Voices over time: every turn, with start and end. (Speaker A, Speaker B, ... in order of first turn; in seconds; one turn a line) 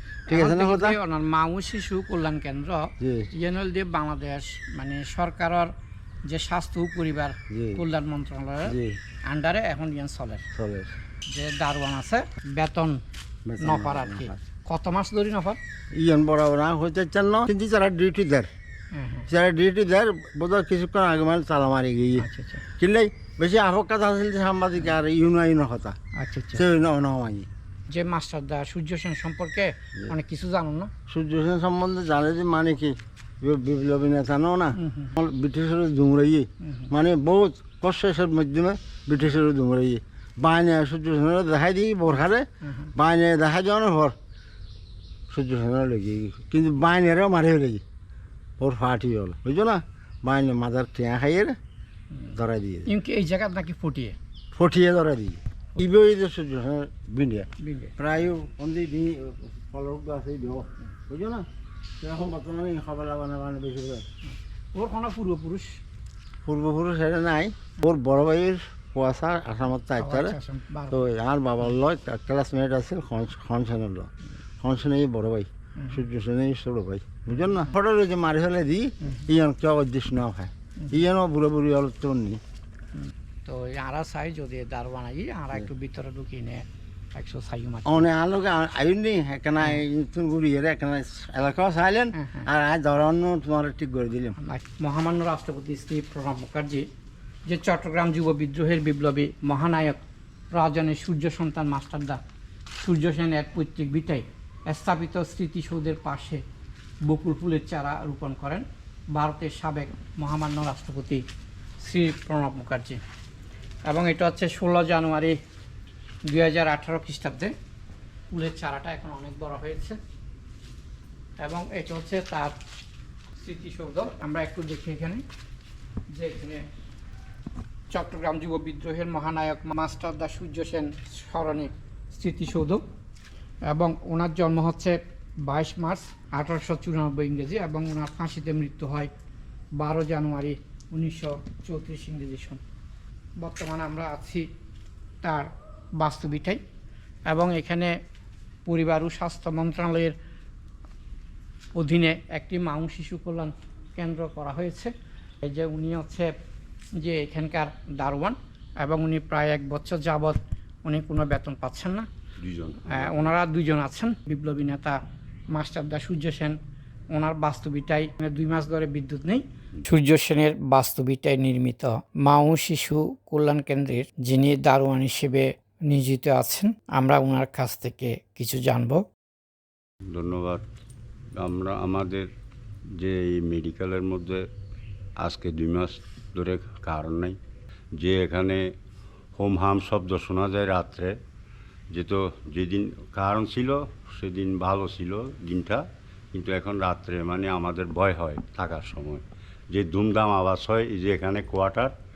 Speaker A: 0.3-5.7
Speaker B: 0.3-1.0
Speaker B: 3.0-3.3
Speaker A: 6.3-8.8
Speaker B: 7.5-7.8
Speaker B: 8.7-9.0
Speaker A: 9.3-10.4
Speaker B: 10.5-10.9
Speaker A: 11.3-13.0
Speaker B: 13.4-14.3
Speaker A: 13.6-15.6
Speaker B: 15.9-18.5
Speaker A: 18.9-19.3
Speaker B: 19.3-22.2
Speaker A: 22.2-22.6
Speaker B: 22.8-26.0
Speaker A: 26.1-26.6
Speaker B: 26.5-27.5
Speaker A: 27.9-30.9
Speaker B: 31.1-44.1
Speaker A: 34.8-35.1
Speaker B: 45.3-47.8
Speaker B: 48.6-51.6
Speaker B: 52.2-52.9
Speaker A: 52.9-54.1
Speaker B: 54.5-61.5
Speaker A: 57.6-58.0
Speaker B: 62.0-64.0
Speaker A: 64.7-65.8
Speaker B: 66.4-70.4
Speaker A: 70.0-71.0
Speaker B: 70.9-82.4
Speaker A: 83.4-88.1
Speaker B: 87.8-94.3
Speaker A: 92.2-92.5
Speaker A: 94.4-96.9
Speaker A: 97.5-100.0
Speaker A: 100.5-102.2
Speaker A: 102.8-106.4
Speaker A: 107.0-111.2
Speaker A: 111.8-113.0
Speaker A: 113.8-115.4
Speaker A: 116.2-117.5
Speaker A: 118.3-120.0
Speaker A: 121.4-122.5
Speaker A: 123.4-125.2
Speaker A: 126.1-126.7
Speaker A: 127.9-132.8
Speaker A: 133.7-139.1
Speaker A: 139.8-142.6
Speaker A: 143.4-144.5
Speaker A: 145.2-146.6
Speaker A: 147.3-147.9
Speaker A: 148.7-150.2
Speaker A: 151.7-156.3
Speaker A: 157.0-162.1
Speaker C: 162.4-163.3
Speaker A: 162.9-165.0
Speaker A: 165.5-166.6
Speaker A: 167.1-179.0
Speaker C: 180.1-180.6
Speaker C: 181.4-182.3
Speaker C: 183.0-184.4
Speaker C: 185.2-187.4
Speaker C: 188.0-188.6
Speaker C: 189.4-191.2
Speaker C: 191.9-201.9